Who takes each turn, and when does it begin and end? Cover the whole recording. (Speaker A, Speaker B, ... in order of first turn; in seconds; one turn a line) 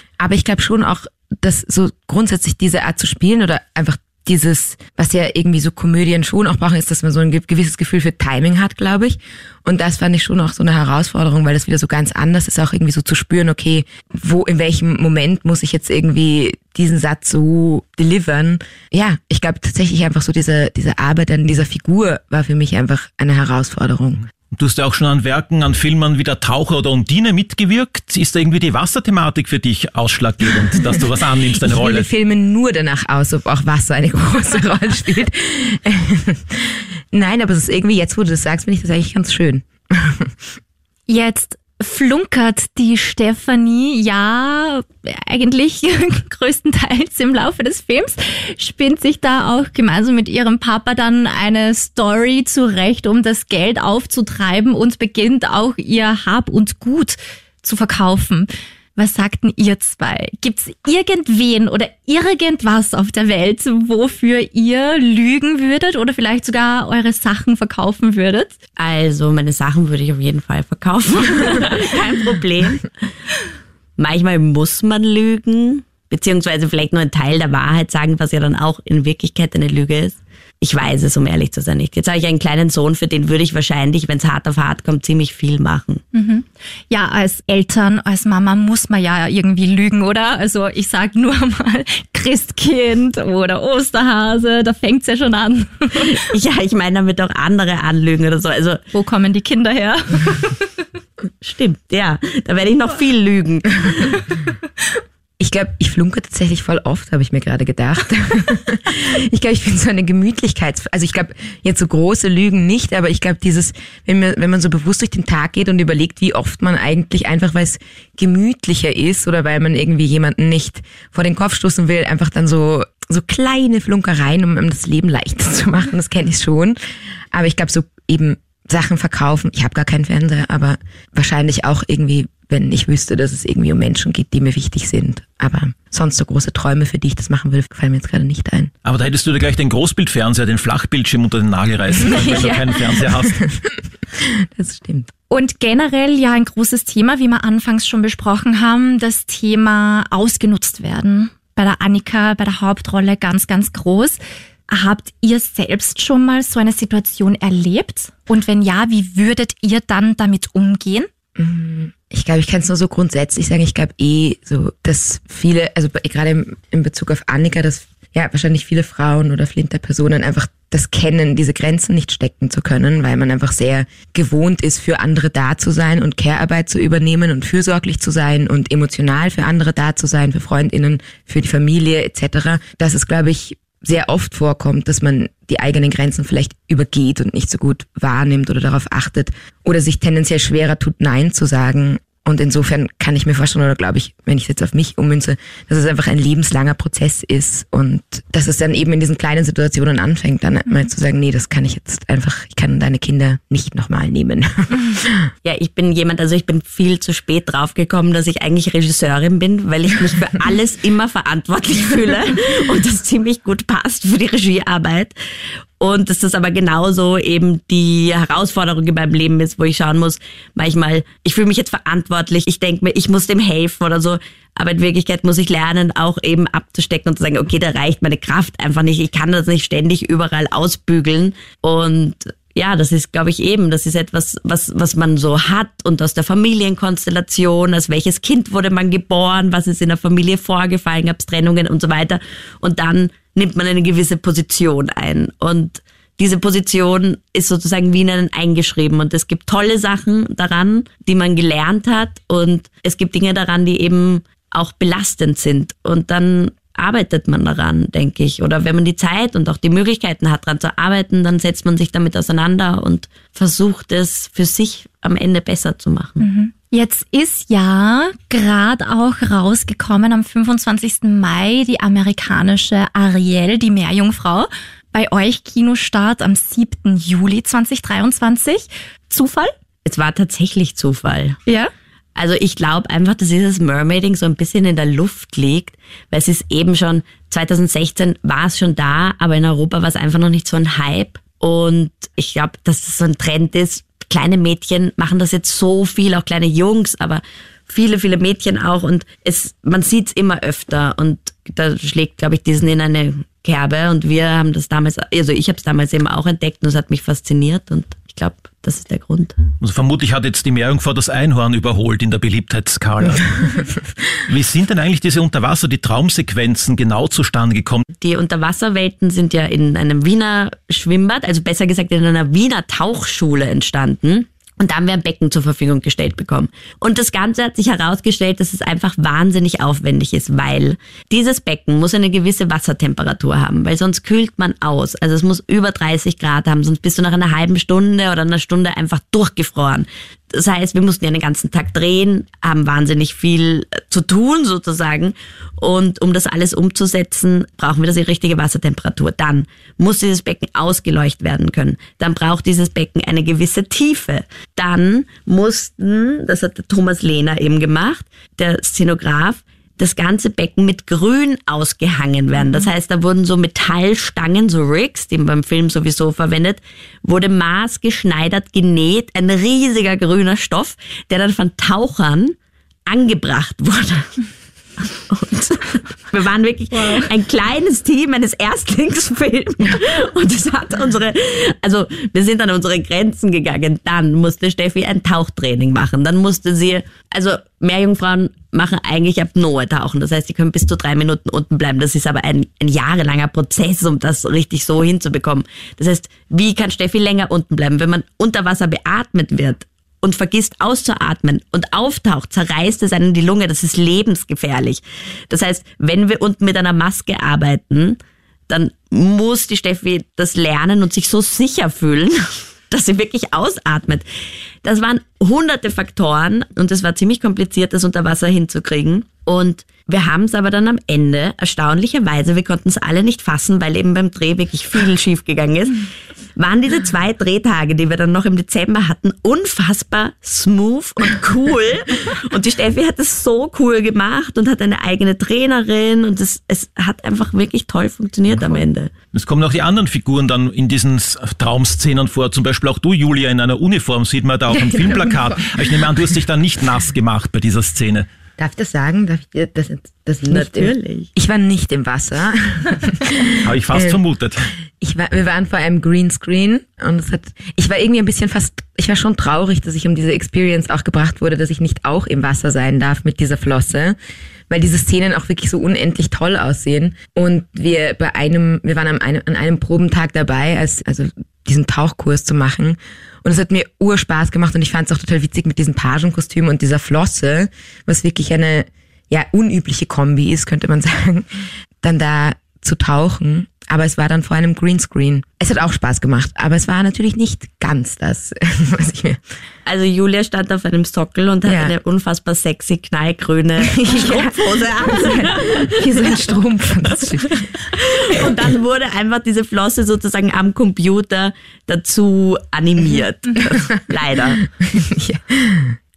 Speaker A: 0.2-24.2
Speaker B: 24.5-32.0
Speaker A: 31.6-40.3
Speaker C: 41.1-68.5
Speaker D: 68.8-72.8
Speaker D: 74.0-86.0
Speaker C: 86.1-96.1
Speaker D: 96.1-98.8
Speaker C: 98.9-100.7
Speaker D: 101.4-104.2
Speaker A: 105.4-126.8
Speaker A: 127.3-138.7
Speaker B: 138.8-143.4
Speaker A: 142.1-142.5
Speaker C: 142.2-142.6
Speaker A: 144.1-145.1
Speaker C: 145.3-154.2
Speaker C: 154.7-161.1
Speaker A: 161.3-205.3
Speaker D: 205.4-215.1
Speaker D: 215.8-266.2
Speaker C: 266.2-279.5
Speaker D: 279.8-281.4
Speaker D: 282.1-309.4
Speaker B: 309.6-313.6
Speaker B: 314.2-317.8
Speaker D: 318.0-372.4
Speaker C: 362.4-362.6
Speaker D: 372.9-374.1
Speaker D: 374.8-408.0
Speaker C: 376.7-377.1
Speaker D: 408.5-414.0
Speaker D: 414.6-425.8
Speaker D: 426.4-438.9
Speaker B: 439.1-448.1
Speaker A: 444.5-445.6
Speaker A: 448.4-454.0
Speaker D: 450.3-451.1
Speaker B: 453.4-454.4
Speaker A: 454.8-463.9
Speaker A: 464.5-489.2
Speaker D: 489.6-496.1
Speaker A: 491.4-491.7
Speaker A: 493.7-497.4
Speaker D: 497.7-504.4
Speaker A: 504.6-505.8